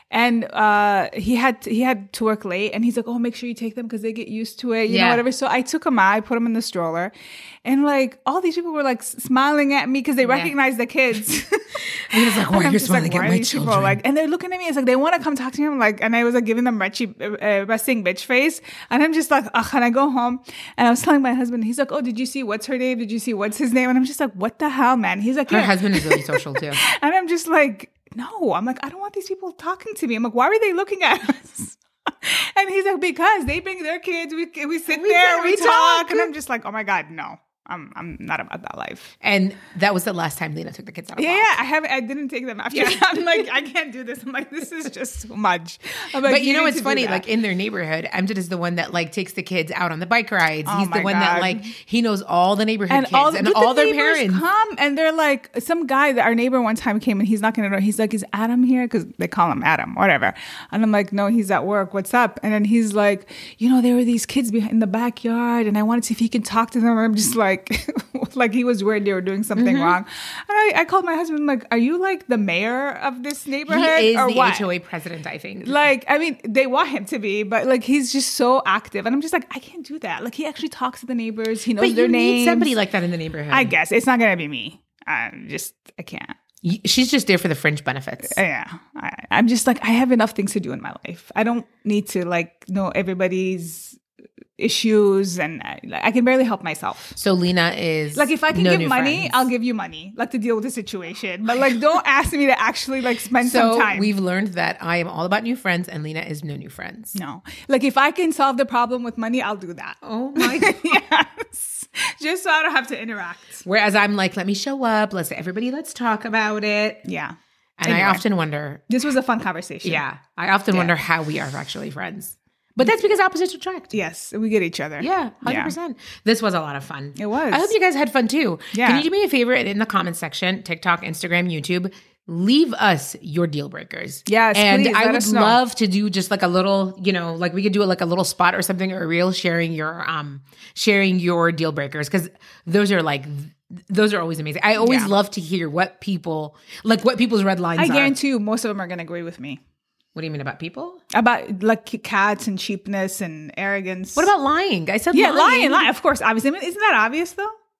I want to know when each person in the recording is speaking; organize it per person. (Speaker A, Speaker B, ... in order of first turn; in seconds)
Speaker A: 0.1-39.1, 41.2-47.2, 50.7-51.7, 52.9-74.7, 75.6-82.7, 83.5-86.3, 88.3-94.0, 94.6-97.1, 98.2-104.1, 107.2-113.6, 117.0-118.2, 118.9-120.0, 123.9-125.8, 127.2-127.7, 128.7-129.1, 134.3-135.6, 144.8-145.1, 147.8-149.6, 151.1-154.3, 155.1-157.5
Speaker B: 4.9-5.2, 10.3-10.5, 11.9-14.0, 25.5-26.8, 34.9-36.3, 39.2-41.6, 42.7-43.1, 46.2-54.4, 69.6-70.0, 73.7-75.8, 81.8-83.7, 86.6-88.4, 97.2-99.5, 103.4-107.2, 110.0-111.0, 113.6-117.0, 117.8-118.8, 119.8-124.0, 125.0-148.2, 150.2-151.0, 154.2-155.9